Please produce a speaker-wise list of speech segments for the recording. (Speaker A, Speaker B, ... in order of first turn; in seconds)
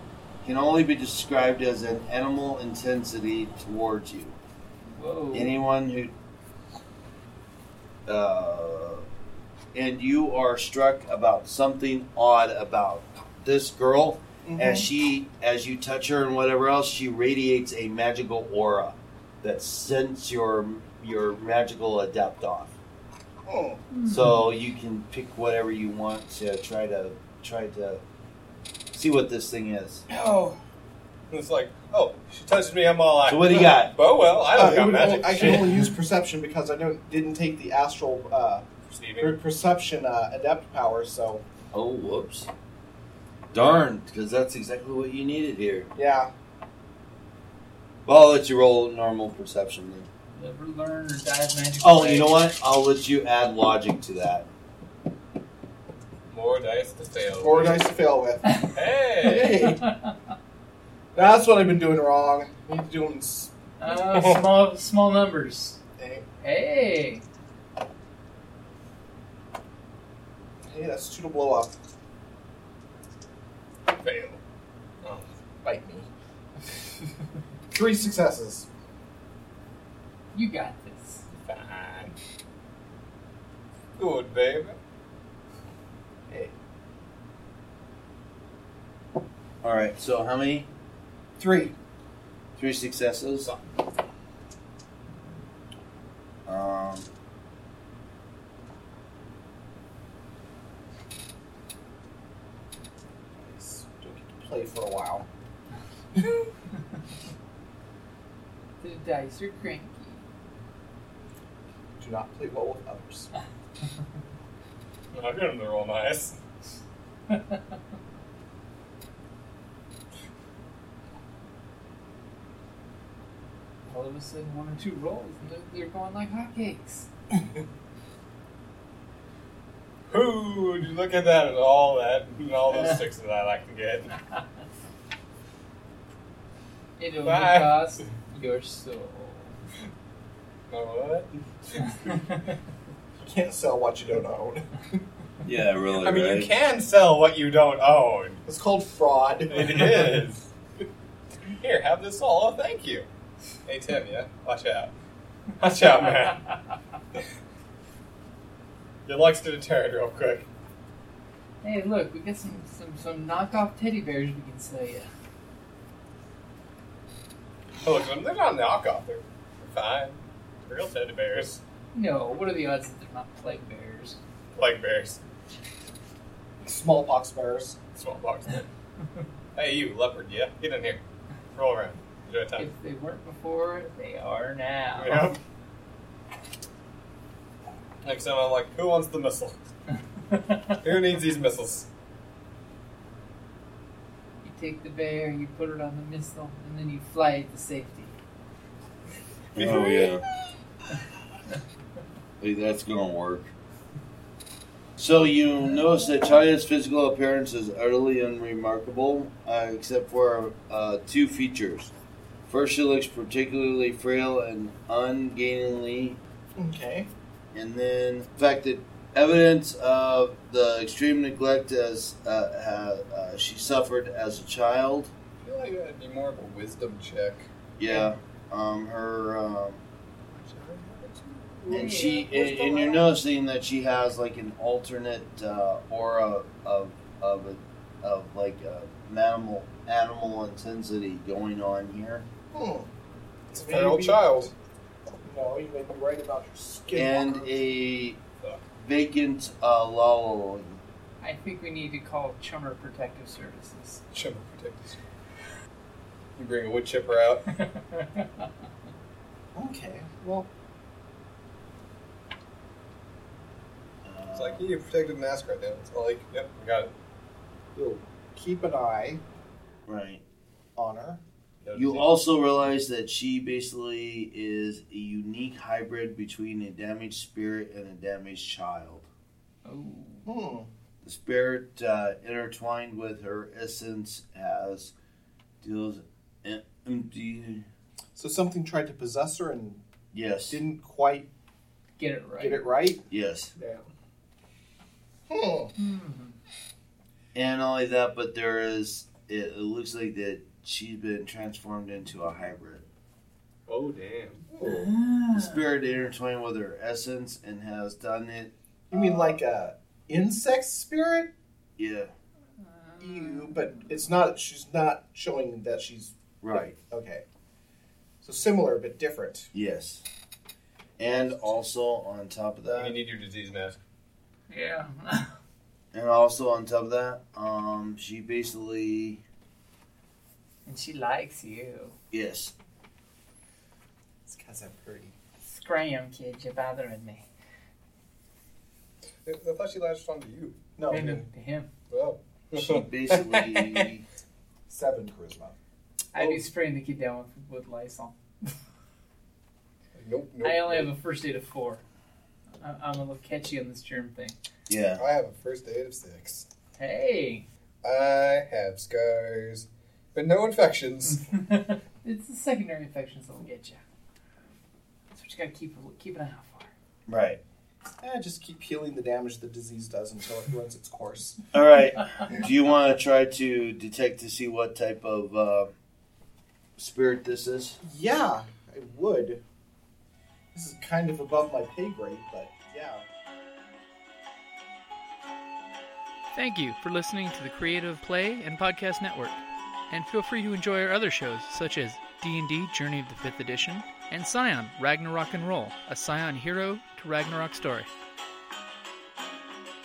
Speaker A: 0.4-4.4, 5.3-6.1, 8.1-9.1, 9.7-22.8, 24.1-28.0, 28.9-30.0, 33.2-33.9, 41.7-42.5, 43.5-45.9, 48.0-50.1, 51.8-54.5, 89.6-90.7, 92.6-93.5, 96.5-97.1, 145.4-146.5, 199.6-200.2, 202.4-203.5, 205.0-211.9, 212.5-216.2, 217.5-225.1, 227.8-229.8, 231.7-242.3, 246.9-248.2, 248.8-250.8, 264.0-264.6, 269.9-270.2, 271.7-279.1, 281.0-284.9, 285.6-287.6, 290.1-290.6, 293.1-293.5, 297.3-302.8, 305.3-308.5, 311.8-312.1, 316.4-316.7, 319.5-320.0, 321.0-322.9, 325.9-329.2, 332.1-332.5, 342.5-344.0, 354.7-355.0, 367.1-367.4, 371.5-375.7, 376.8-377.8
Speaker B: 4.9-5.5, 23.9-24.3, 50.3-52.4, 58.5-58.7, 59.3-60.1, 63.8-65.8, 66.4-67.2, 80.3-81.2, 108.8-110.2, 117.3-117.6, 123.9-127.1, 137.0-139.5, 161.6-165.1, 171.9-174.2, 182.6-185.3, 190.3-190.7, 194.4-198.1, 231.7-232.9, 251.2-254.0, 257.6-258.5, 279.6-280.3, 292.0-292.6, 295.8-296.3, 304.6-305.7, 312.6-313.9, 324.5-325.3, 330.6-331.9, 335.4-337.2, 340.9-341.7, 346.1-348.1, 350.4-351.8, 352.6-354.4, 356.8-357.5, 361.3-363.8, 365.1-366.7
Speaker C: 14.4-14.9, 23.5-23.8, 30.1-30.6, 34.5-38.6, 39.2-41.4, 45.9-46.3, 57.4-58.6, 59.2-59.8, 61.1-63.5, 66.0-66.2, 70.6-71.7, 75.6-76.1, 77.7-78.7, 91.4-91.7, 103.4-105.2, 106.2-106.5, 112.0-113.3, 143.2-145.0, 148.5-149.8, 176.6-177.8, 216.6-217.1, 230.5-231.9, 232.4-232.7, 242.5-242.9, 243.5-244.5, 245.2-247.6, 259.5-260.5, 267.7-269.2, 270.8-271.2, 280.2-280.7, 288.1-289.8, 290.5-291.3, 292.4-293.0, 295.3-295.7, 308.9-311.3, 313.0-317.2, 318.2-319.5, 334.2-335.1, 340.8-341.3, 344.7-345.6, 368.0-371.4, 377.8-379.4, 380.5-383.0
Speaker D: 31.3-35.9, 38.9-39.4, 56.3-57.9, 58.7-59.6, 64.1-64.5, 73.9-74.4, 75.0-75.3, 81.3-82.1, 84.0-84.8, 115.1-116.4, 130.1-134.1, 137.2-138.1, 140.7-142.2, 145.9-148.4, 149.5-150.5, 151.5-153.1, 153.7-154.9, 155.6-156.4, 159.1-160.4, 167.8-171.6, 174.5-175.2, 177.9-178.7, 179.5-181.0, 181.5-182.7, 185.0-185.4, 188.0-189.6, 190.8-191.9, 199.6-200.1, 225.4-227.5, 230.3-231.2, 243.5-244.5, 254.1-255.0, 256.4-257.4, 264.3-266.9, 271.6-272.1, 303.7-304.9, 322.8-323.8, 339.2-340.6, 341.9-343.9, 346.1-346.4, 349.9-350.9, 355.0-356.5, 357.8-361.3
Speaker E: 386.3-397.9